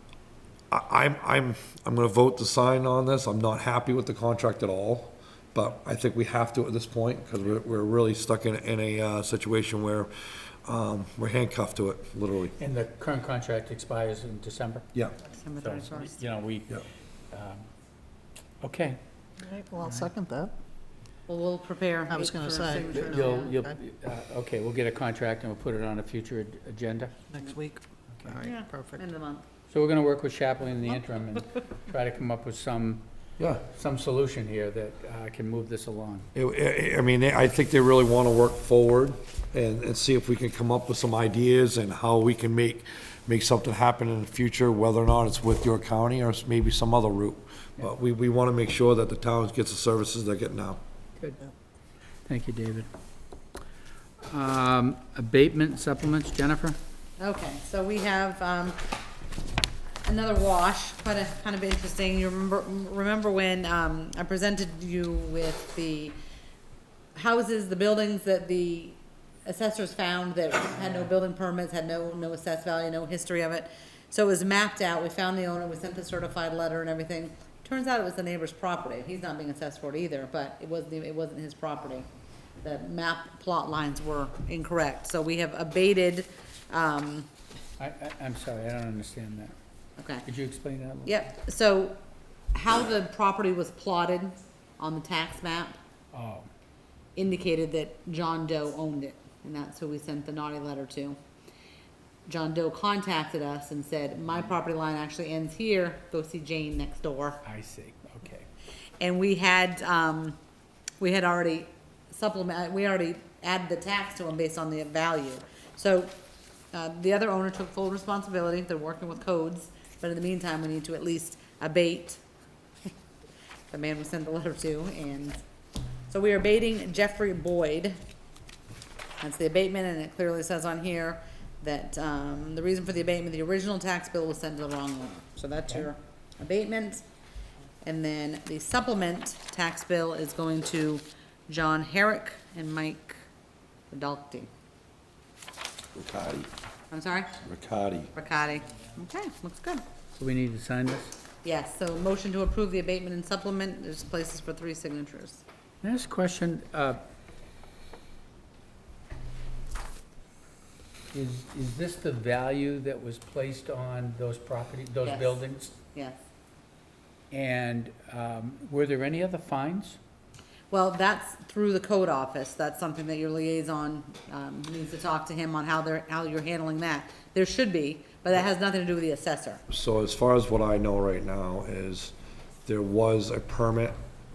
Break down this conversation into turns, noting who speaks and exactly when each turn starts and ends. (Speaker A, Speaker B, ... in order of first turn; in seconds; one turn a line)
Speaker A: 0.7-10.1
Speaker A: 10.6-12.6
Speaker B: 12.6-14.8
Speaker C: 15.3-16.2
Speaker B: 15.6-16.8
Speaker B: 17.3-17.7
Speaker B: 18.6-19.0
Speaker D: 19.4-20.5
Speaker C: 21.3-23.5
Speaker D: 22.1-23.8
Speaker B: 22.6-27.1
Speaker D: 27.3-29.0
Speaker C: 28.4-29.4
Speaker B: 29.7-33.0
Speaker A: 33.4-33.6
Speaker B: 33.6-36.3
Speaker A: 36.3-50.8
Speaker B: 52.2-52.9
Speaker B: 54.2-56.8
Speaker C: 57.2-58.8
Speaker C: 60.0-66.1
Speaker C: 67.2-82.0
Speaker C: 82.6-87.3
Speaker B: 87.8-89.5
Speaker C: 90.0-90.2
Speaker B: 90.2-91.2
Speaker C: 91.0-92.0
Speaker C: 92.5-95.8
Speaker B: 96.1-96.5
Speaker C: 97.2-101.2
Speaker C: 102.3-107.4
Speaker B: 107.4-108.5
Speaker C: 109.0-110.4
Speaker C: 111.0-116.1
Speaker C: 116.7-122.2
Speaker C: 123.7-125.4
Speaker C: 126.1-128.0
Speaker C: 129.2-137.0
Speaker C: 137.8-143.2
Speaker C: 143.9-144.5
Speaker A: 145.9-146.5
Speaker C: 146.9-147.4
Speaker A: 147.4-148.1
Speaker C: 148.1-149.8
Speaker B: 150.2-151.1
Speaker C: 151.4-155.4
Speaker B: 155.8-157.0
Speaker B: 161.1-165.7
Speaker C: 165.0-165.4
Speaker B: 167.3-170.0
Speaker C: 170.7-179.6
Speaker A: 179.7-182.1
Speaker A: 182.7-184.0